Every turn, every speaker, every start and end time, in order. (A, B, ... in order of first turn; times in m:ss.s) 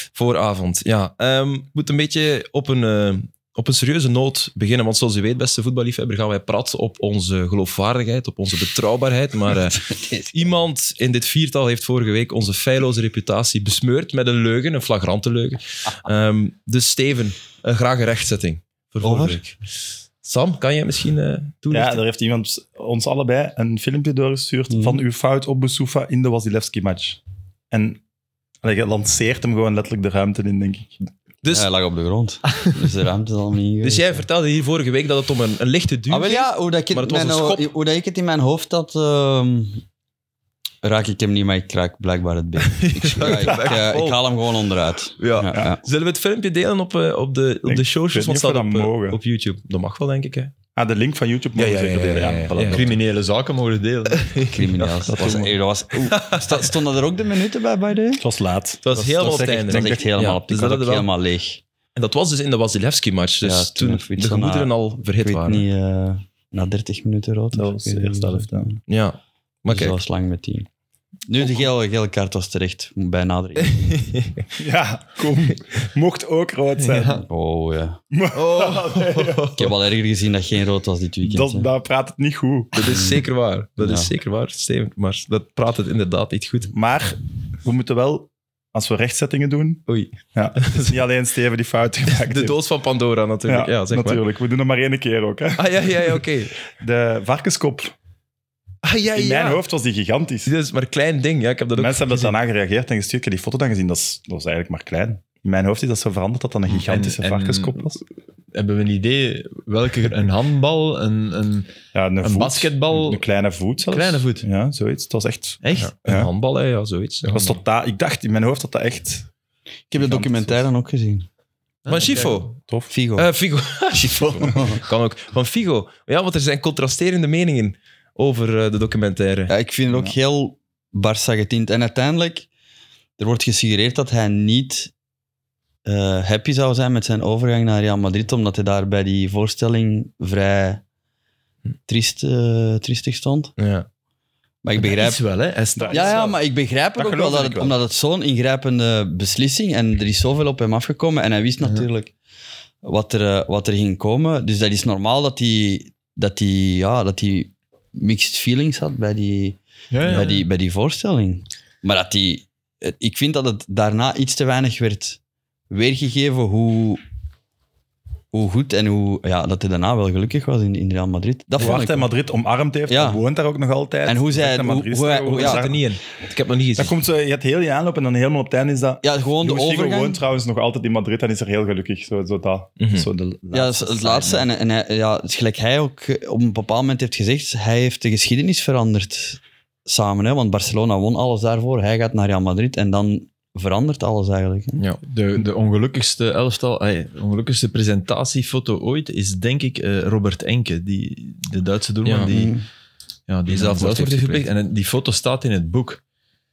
0:00.1-0:19.6 A
0:19.0-0:19.4 B
0:20.2-0:22.0 A
0:21.7-0:27.2 C
0:24.7-0:25.0 B
0:27.7-0:28.0 C
0:28.6-0:31.0 C
0:31.4-0:31.7 A
0:31.5-0:34.2 B
0:33.8-0:37.7 A
0:36.1-0:39.8 B
0:40.8-0:45.8 B
0:42.6-0:44.2 A
0:45.2-0:50.5 A
0:47.7-0:49.2 C
0:50.8-0:53.0 C
0:51.6-0:52.8 A
0:52.1-0:54.3 D
0:54.1-0:56.6 A
0:54.5-0:58.2 B
0:55.1-0:55.5 C
0:58.2-0:58.8 C
0:58.8-1:01.1 A
0:58.9-1:01.6 B
0:59.4-1:00.1 C
1:02.0-1:05.7 A
1:03.4-1:08.8 B
1:07.5-1:08.7 C
1:08.9-1:10.0 A
1:09.7-1:10.7 B
1:11.3-1:14.0 B
1:13.6-1:14.5 A
1:14.6-1:17.3 C
1:15.2-1:15.6 A
1:16.8-1:17.2 D
1:17.2-1:18.0 B
1:18.1-1:19.5 C
1:18.3-1:19.8 A
1:19.6-1:21.7 B
1:21.2-1:23.0 C
1:22.7-1:26.7 A
1:22.8-1:23.2 B
1:23.8-1:24.1 B
1:26.7-1:32.6 C
1:29.9-1:30.9 A
1:32.1-1:34.2 A
1:33.5-1:37.9 C
1:35.6-1:36.6 A
1:38.8-1:39.6 A
1:39.2-1:40.5 C
1:40.4-1:42.3 A
1:41.8-1:48.0 C
1:46.7-1:48.0 D
1:48.5-1:53.2 D
1:51.9-1:56.3 C
1:53.9-1:54.5 D
1:55.6-1:55.9 D
1:55.8-1:57.6 A
1:57.3-1:59.3 C
1:59.9-2:01.3 B
2:00.0-2:00.6 C
2:01.8-2:02.5 D
2:01.9-2:09.5 A
2:02.6-2:02.9 C
2:02.9-2:03.3 B
2:04.5-2:04.8 B
2:09.5-2:12.5 B
2:09.9-2:10.2 C
2:13.2-2:14.9 B
2:15.8-2:20.8 B
2:21.9-2:23.5 B
2:23.6-2:23.9 A
2:24.6-2:25.2 B
2:24.8-2:26.2 D
2:25.8-2:26.4 C
2:25.9-2:32.1 B
2:27.0-2:27.8 C
2:32.8-2:45.2 B
2:39.9-2:40.4 D
2:45.7-2:47.0 B
2:48.3-2:52.1 B
2:51.6-2:55.9 C
2:52.9-2:53.2 B
2:54.0-2:55.7 B
2:55.2-2:57.0 A
2:56.8-3:04.5 C
2:59.0-3:00.2 B
3:02.8-3:03.1 A
3:03.5-3:14.8 B
3:15.1-3:22.6 D
3:22.0-3:22.3 A
3:22.3-3:22.6 B
3:23.3-3:26.0 D
3:23.5-3:24.5 A